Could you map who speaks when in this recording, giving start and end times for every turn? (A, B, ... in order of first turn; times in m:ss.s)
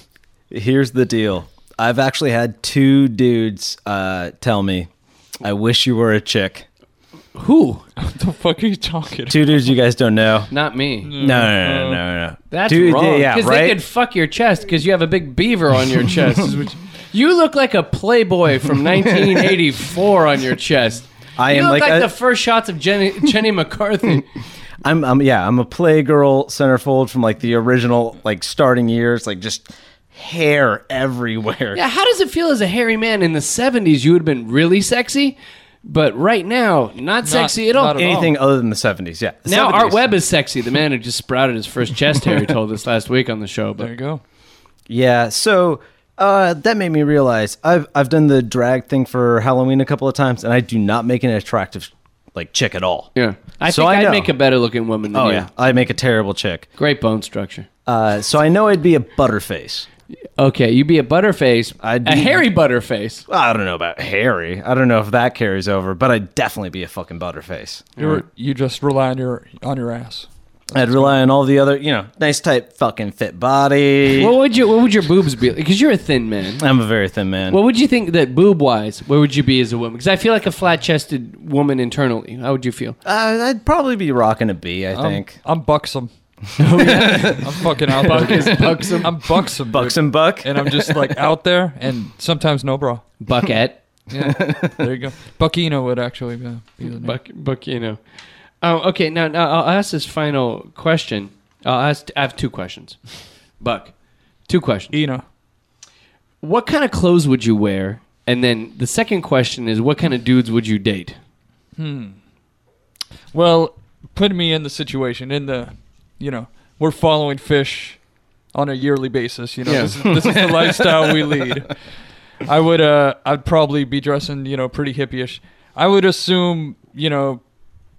0:00.5-0:04.9 A
0:05.4-0:06.7 A
0:07.4-0:07.8 B
0:08.0-0:09.7 C
0:09.3-0:10.5 A
0:10.5-0:11.1 B
0:11.1-0:12.0 C
0:11.2-0:13.8 A
0:12.5-0:24.3 B
0:21.4-0:22.1 A
0:24.8-0:31.8 A
0:31.7-0:38.3 B
0:37.2-0:38.3 C
0:38.0-0:40.1 A
0:39.5-0:43.9 B
0:43.8-0:44.2 C
0:44.9-0:53.1 A
0:53.2-0:55.5 B
0:53.6-0:54.3 A
0:55.1-0:56.7 A
0:56.8-0:57.7 B
0:57.9-0:59.9 A
1:00.4-1:03.2 B
1:01.8-1:02.5 A
1:03.3-1:07.9 A
1:08.0-1:08.2 B
1:08.0-1:10.3 C
1:10.7-1:14.3 A
1:10.8-1:11.1 C
1:14.1-1:16.6 B
1:16.6-1:17.6 A
1:17.5-1:23.0 B
1:23.0-1:25.3 A
1:24.9-1:33.1 C
1:26.6-1:27.5 B
1:26.7-1:27.5 A
1:28.0-1:29.1 B
1:28.0-1:28.8 A
1:29.7-1:31.2 A
1:33.2-1:33.8 B
1:34.1-1:37.2 C
1:34.2-1:34.8 A
1:36.9-1:38.0 B
1:38.6-1:43.0 B
1:43.6-1:43.9 B
1:44.5-1:44.9 B
1:44.9-1:45.2 C
1:46.4-1:51.2 B
1:51.8-1:52.2 C
1:53.3-1:58.0 C
1:58.5-2:01.8 C
1:59.7-1:59.9 B
2:00.0-2:01.4 A
2:02.4-2:07.4 C